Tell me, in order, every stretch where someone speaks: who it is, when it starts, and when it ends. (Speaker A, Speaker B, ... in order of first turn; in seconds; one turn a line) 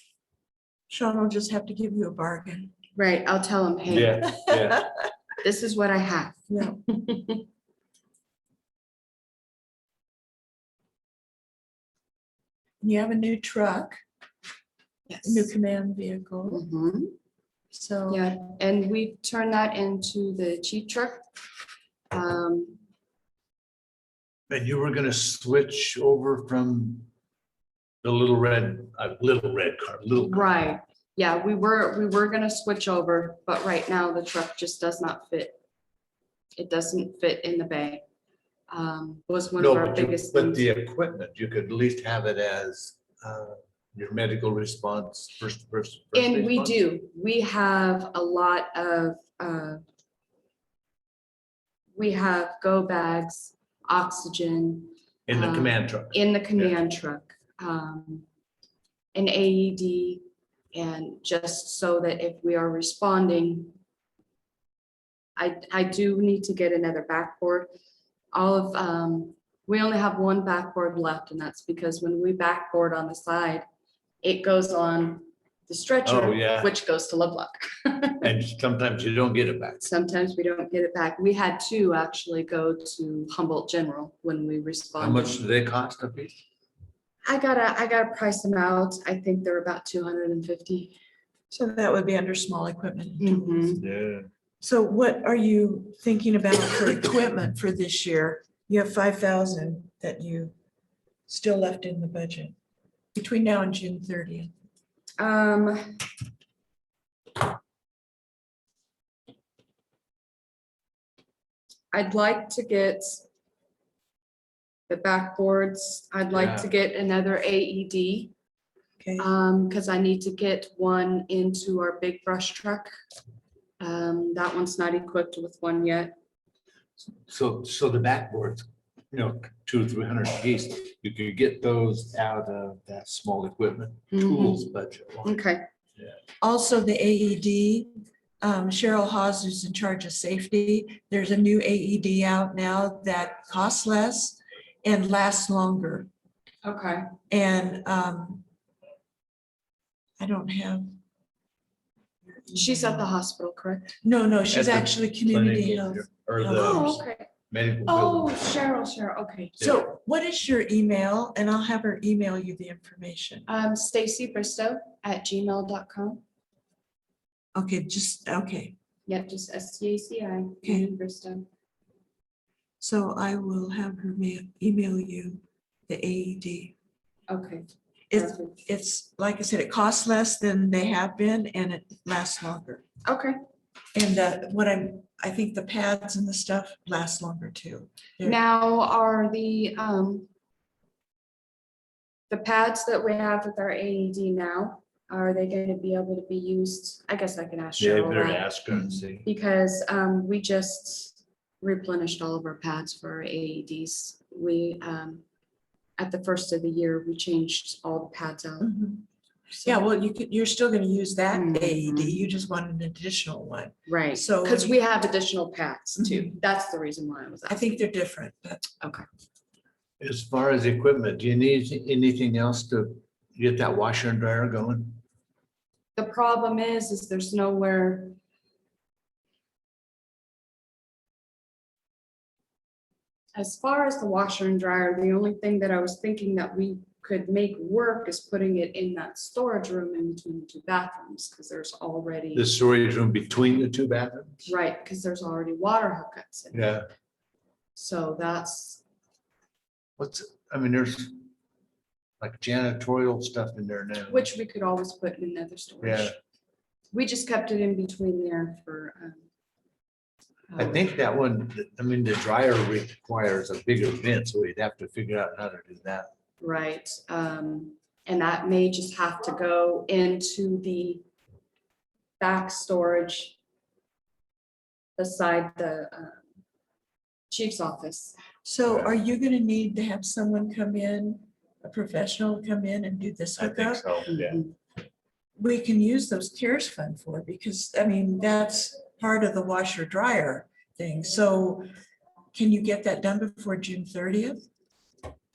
Speaker A: 0.9-2.7
Speaker B: 3.0-4.2
Speaker C: 3.9-4.8
Speaker A: 4.5-4.8
Speaker B: 5.4-7.4
Speaker A: 6.5-6.8
Speaker A: 12.8-14.0
Speaker B: 15.1-15.5
Speaker A: 15.2-16.6
Speaker B: 16.5-17.1
Speaker A: 17.7-18.2
Speaker B: 18.1-21.2
Speaker B: 22.1-22.8
Speaker C: 24.5-27.1
Speaker C: 28.0-30.6
Speaker B: 30.1-35.6
Speaker B: 36.6-38.0
Speaker B: 38.7-40.7
Speaker C: 39.6-46.8
Speaker B: 46.1-49.8
Speaker B: 52.0-58.2
Speaker C: 55.3-56.7
Speaker B: 59.1-63.7
Speaker B: 65.4-67.7
Speaker B: 68.3-73.6
Speaker B: 74.2-78.2
Speaker C: 76.0-76.7
Speaker C: 78.2-79.9
Speaker B: 79.8-85.4
Speaker C: 85.0-86.4
Speaker B: 87.2-90.9
Speaker A: 91.5-93.8
Speaker B: 93.2-93.8
Speaker C: 93.8-94.2
Speaker A: 94.6-100.5
Speaker A: 101.3-102.5
Speaker A: 103.1-104.5
Speaker B: 105.2-106.0
Speaker B: 111.9-113.2
Speaker B: 114.9-118.3
Speaker C: 116.3-116.7
Speaker A: 119.0-119.3
Speaker B: 119.2-122.9
Speaker B: 123.8-126.2
Speaker C: 127.2-135.4
Speaker B: 134.1-134.7
Speaker B: 135.2-135.6
Speaker A: 136.4-146.1
Speaker B: 146.6-147.1
Speaker A: 147.3-148.4
Speaker A: 150.2-150.8
Speaker B: 152.5-154.0
Speaker A: 152.5-153.0
Speaker A: 154.0-157.0
Speaker C: 154.5-158.4
Speaker B: 156.6-157.3
Speaker B: 157.8-159.8
Speaker A: 159.6-163.4
Speaker B: 163.5-166.2
Speaker A: 167.5-168.7
Speaker B: 169.1-171.4
Speaker A: 170.6-170.9
Speaker A: 172.8-176.7
Speaker B: 177.3-178.6
Speaker A: 178.1-182.8
Speaker B: 183.0-183.3
Speaker A: 183.9-188.4
Speaker B: 188.2-190.3
Speaker B: 192.3-198.5
Speaker C: 197.8-199.2
Speaker A: 198.7-199.0
Speaker B: 199.2-205.2
Speaker B: 206.0-208.8
Speaker A: 208.6-209.0
Speaker A: 209.6-214.8
Speaker B: 211.3-212.2
Speaker B: 213.9-217.8
Speaker A: 216.0-216.3
Speaker A: 217.5-218.7
Speaker C: 220.0-225.0
Speaker B: 225.9-228.2
Speaker B: 233.3-242.5
Speaker C: 242.3-244.5
Speaker B: 244.4-246.7
Speaker C: 246.5-246.8
Speaker B: 247.7-248.8
Speaker C: 250.0-251.2
Speaker C: 252.2-254.3
Speaker B: 254.1-256.1
Speaker C: 255.8-256.1
Speaker B: 256.9-259.2
Speaker B: 260.5-260.8
Speaker C: 260.6-266.1
Speaker B: 266.4-271.0
Speaker B: 272.2-273.4
Speaker B: 275.0-276.2
Speaker B: 277.3-278.2
Speaker A: 278.4-283.9
Speaker C: 278.6-278.9
Speaker C: 283.4-284.4
Speaker B: 284.1-284.5
Speaker A: 285.4-291.6
Speaker A: 292.3-294.4